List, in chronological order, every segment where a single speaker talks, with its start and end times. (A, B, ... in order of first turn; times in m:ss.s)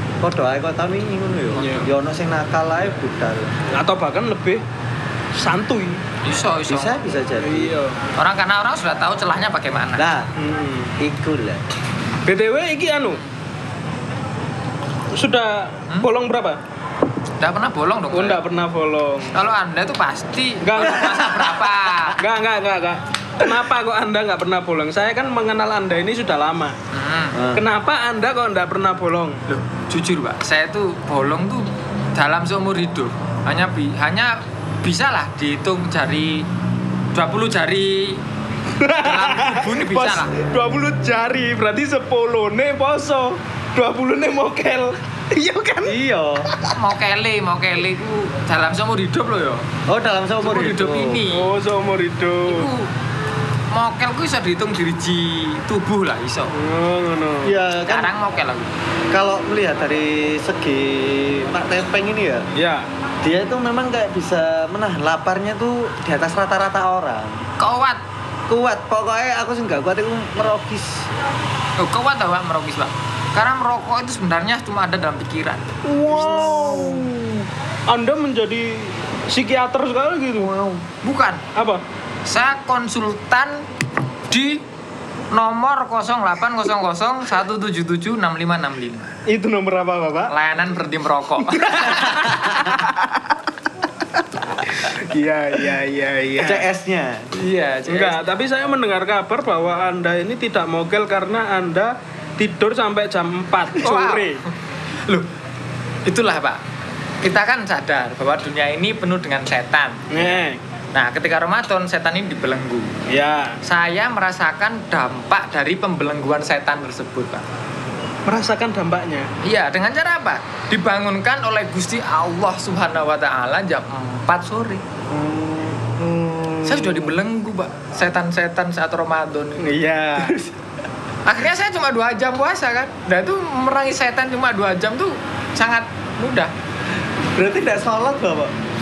0:00.2-0:03.6 A
0:01.6-0:01.9 B
0:03.7-0:04.6 B
0:05.4-0:06.0 B
0:06.2-0:06.9 C
0:06.7-0:07.8 A
0:07.4-0:08.0 B
0:08.2-0:10.1 C
0:10.0-0:10.3 A
0:10.4-0:10.9 B
0:11.0-0:11.6 A
0:12.2-0:13.2 B
0:15.1-0:16.6 B
0:17.4-0:18.4 C
0:18.1-0:19.4 B
0:19.3-0:22.2 C
0:20.6-0:21.4 B
0:22.2-0:26.8 B
0:26.9-0:27.4 C
0:27.3-0:27.6 A
0:27.5-0:29.4 B
0:29.5-0:36.4 C
0:37.1-0:38.2 C
0:38.8-0:46.0 B
0:39.0-0:40.3 C
0:45.8-0:46.5 A
0:46.7-0:49.7 C
0:49.9-0:51.2 A
0:50.4-0:51.5 C
0:51.3-0:52.7 B
0:52.5-0:52.9 C
0:53.7-0:56.5 C
0:56.5-0:57.6 B
0:57.4-0:58.1 A
0:57.8-0:58.7 C
0:59.1-1:02.4 A
1:02.5-1:02.9 B
1:03.2-1:07.4 A
1:07.6-1:08.0 C
1:08.5-1:11.1 A
1:11.8-1:15.6 C
1:15.8-1:20.5 B
1:16.0-1:17.1 A
1:20.4-1:20.8 A
1:21.0-1:21.4 C
1:21.5-1:21.8 B
1:22.2-1:23.6 C
1:24.3-1:24.6 C
1:25.3-1:29.1 C
1:29.3-1:30.3 B
1:30.3-1:32.4 C
1:31.5-1:33.3 B
1:34.6-1:36.7 B
1:36.4-1:37.3 A
1:37.3-1:38.2 C
1:37.9-1:44.4 B
1:43.8-1:44.5 C
1:46.0-1:46.6 C
1:47.2-1:52.9 C
1:50.1-1:50.6 B
1:53.1-1:53.6 B
1:53.6-1:57.4 C
1:58.2-1:59.3 B
1:59.4-2:04.8 C
2:05.1-2:05.9 A
2:06.0-2:07.1 B
2:06.6-2:09.7 C
2:09.6-2:10.4 B
2:10.2-2:10.5 A
2:11.2-2:16.5 C
2:17.3-2:18.5 A